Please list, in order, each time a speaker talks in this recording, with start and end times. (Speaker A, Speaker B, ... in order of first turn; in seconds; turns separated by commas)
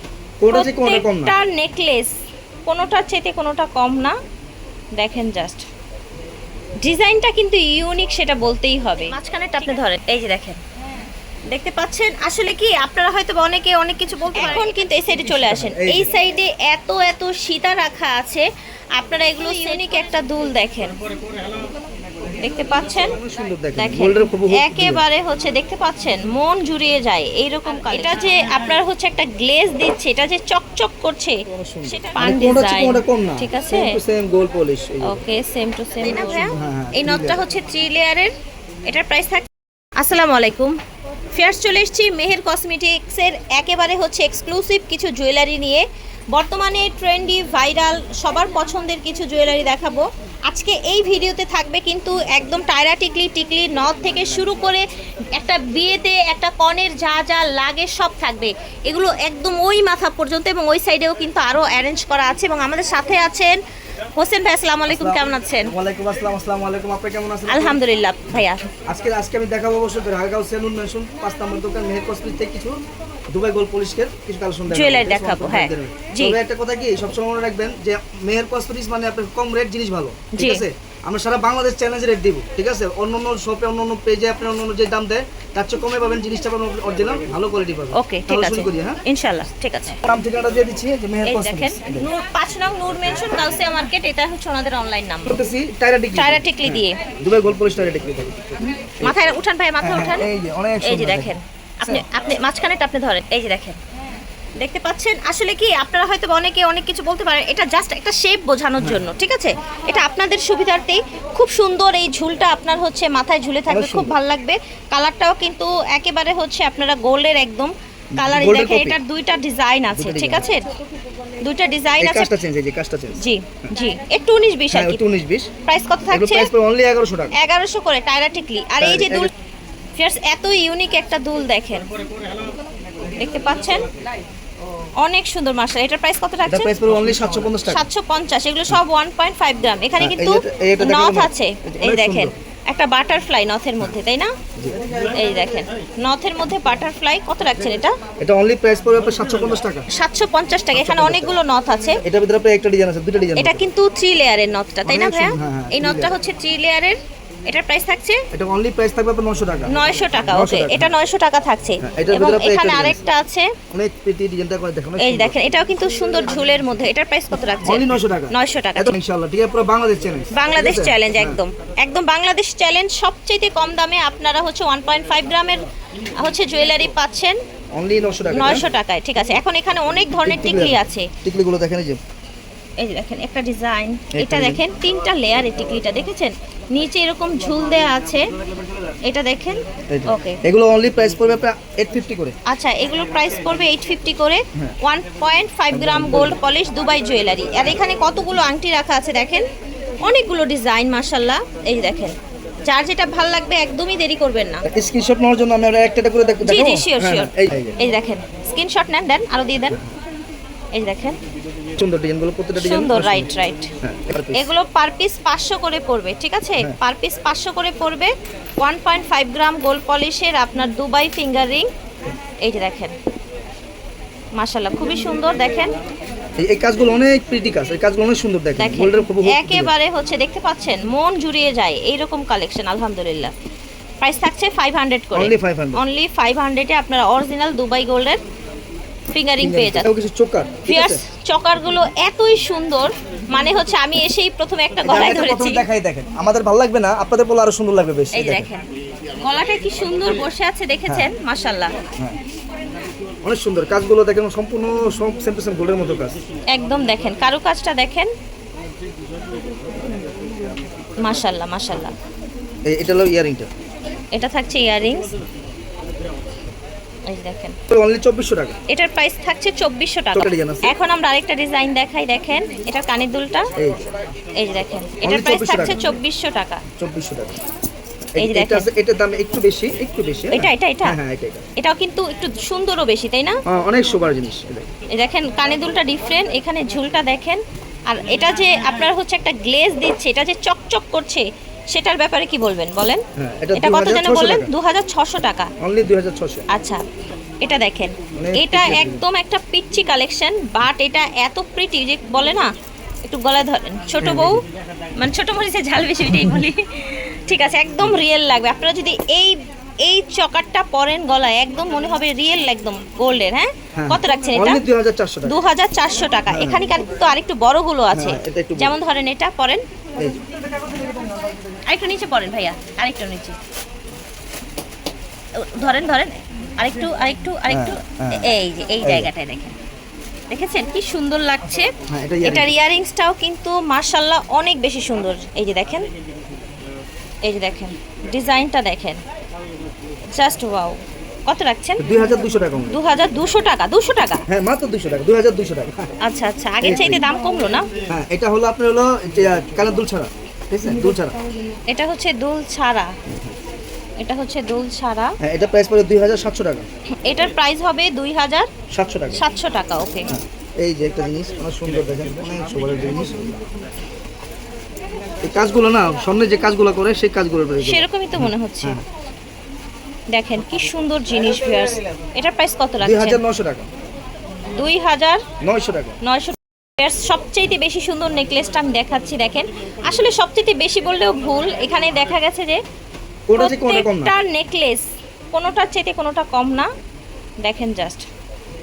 Speaker A: 0.4-1.4, Speaker B: 0.5-2.1, Speaker B: 2.7-4.1, Speaker B: 5.0-5.7, Speaker B: 6.8-10.6, Speaker B: 11.5-18.4, Speaker A: 15.2-16.1, Speaker B: 19.0-20.9, Speaker B: 22.4-23.1, Speaker A: 22.9-25.0, Speaker B: 23.8-34.0, Speaker A: 31.5-35.2, Speaker B: 35.1-38.3, Speaker A: 36.4-37.5, Speaker B: 38.9-40.8, Speaker B: 41.3-63.6, Speaker B: 64.2-65.7, Speaker A: 64.9-67.8, Speaker B: 67.5-68.7, Speaker A: 68.3-89.0, Speaker B: 74.7-76.4, Speaker B: 80.3-80.7, Speaker B: 87.9-90.0, Speaker A: 90.0-92.1, Speaker B: 91.2-95.4, Speaker A: 95.3-99.2, Speaker B: 96.2-97.0, Speaker B: 99.0-100.3, Speaker A: 99.8-102.0, Speaker B: 100.8-103.8, Speaker B: 104.6-120.7, Speaker A: 108.8-109.1, Speaker A: 113.7-114.1, Speaker A: 118.1-119.0, Speaker A: 119.9-120.5, Speaker B: 121.4-122.3, Speaker A: 122.0-123.7, Speaker B: 123.2-125.0, Speaker A: 124.7-125.5, Speaker B: 125.7-126.5, Speaker A: 126.1-127.3, Speaker B: 127.4-129.3, Speaker A: 128.8-129.3, Speaker B: 130.0-131.9, Speaker B: 133.2-133.8, Speaker B: 135.0-136.7, Speaker A: 136.5-137.9, Speaker B: 137.6-144.3, Speaker A: 140.0-142.3, Speaker B: 145.1-147.9, Speaker A: 148.2-149.9, Speaker B: 149.9-152.0, Speaker A: 150.7-151.4, Speaker A: 152.0-153.7, Speaker B: 153.4-158.2, Speaker A: 154.8-156.2, Speaker A: 158.3-160.9, Speaker B: 159.7-163.5, Speaker A: 161.8-163.0, Speaker A: 163.7-165.4, Speaker B: 165.0-169.0, Speaker A: 167.6-171.4, Speaker B: 170.3-175.7, Speaker B: 176.2-177.4, Speaker A: 177.7-178.7, Speaker B: 178.3-181.1, Speaker A: 180.2-182.0, Speaker B: 182.8-188.2, Speaker A: 184.1-184.6, Speaker B: 189.1-190.4, Speaker A: 189.9-192.3, Speaker B: 192.5-199.4, Speaker A: 195.7-196.4, Speaker B: 200.0-202.1, Speaker B: 202.7-204.7, Speaker A: 204.7-207.8, Speaker B: 206.4-209.8, Speaker B: 210.7-211.2, Speaker A: 211.8-213.3, Speaker B: 212.6-213.7, Speaker A: 213.8-214.5, Speaker B: 214.3-221.7, Speaker B: 222.4-222.9, Speaker B: 224.4-225.7, Speaker A: 226.4-229.7, Speaker B: 228.6-233.3, Speaker B: 234.0-238.2, Speaker A: 235.1-235.8, Speaker B: 239.1-239.9, Speaker A: 239.4-241.0, Speaker B: 240.7-245.6, Speaker A: 244.8-248.5, Speaker B: 248.1-248.7, Speaker B: 249.2-251.7, Speaker A: 250.9-251.1, Speaker A: 253.2-256.2, Speaker B: 256.5-258.1, Speaker B: 261.0-261.9, Speaker A: 262.7-263.5, Speaker B: 264.1-265.1, Speaker B: 267.1-267.6, Speaker A: 267.7-268.6, Speaker B: 268.7-273.5, Speaker A: 270.1-270.7, Speaker A: 273.6-273.8, Speaker B: 274.4-276.6, Speaker A: 275.0-275.9, Speaker A: 276.8-277.4, Speaker A: 278.2-281.4, Speaker B: 278.2-278.7, Speaker B: 280.3-281.0, Speaker B: 281.6-283.4, Speaker A: 283.5-284.7, Speaker B: 284.9-293.0, Speaker A: 293.2-294.5, Speaker B: 293.6-295.5, Speaker A: 295.6-296.4, Speaker B: 296.5-296.8, Speaker B: 297.4-302.5, Speaker A: 298.2-299.0, Speaker B: 303.0-304.4, Speaker A: 304.0-304.4, Speaker B: 305.0-314.6, Speaker A: 313.8-315.4, Speaker B: 315.2-319.6, Speaker A: 316.3-316.7, Speaker A: 317.9-318.8, Speaker A: 320.0-320.2, Speaker B: 321.7-323.4, Speaker B: 325.4-329.6, Speaker A: 327.5-329.1, Speaker B: 330.3-331.7, Speaker A: 331.9-332.5, Speaker B: 332.2-335.9, Speaker B: 337.2-339.0, Speaker B: 340.1-341.9, Speaker A: 341.8-342.8, Speaker B: 342.7-344.2, Speaker A: 344.3-345.9, Speaker B: 346.0-347.7, Speaker A: 346.6-347.0, Speaker A: 347.9-351.2, Speaker B: 351.7-352.9, Speaker A: 353.1-353.4, Speaker B: 354.0-355.1, Speaker A: 355.2-356.7, Speaker B: 357.0-358.5, Speaker A: 358.7-359.2, Speaker B: 359.1-360.1, Speaker A: 360.1-363.4, Speaker A: 365.2-368.8, Speaker B: 367.6-368.8, Speaker B: 370.1-373.2, Speaker A: 372.8-373.7, Speaker B: 374.6-375.2, Speaker A: 375.4-376.0, Speaker B: 376.0-382.6, Speaker A: 383.3-384.1, Speaker B: 383.4-386.7, Speaker B: 387.4-388.1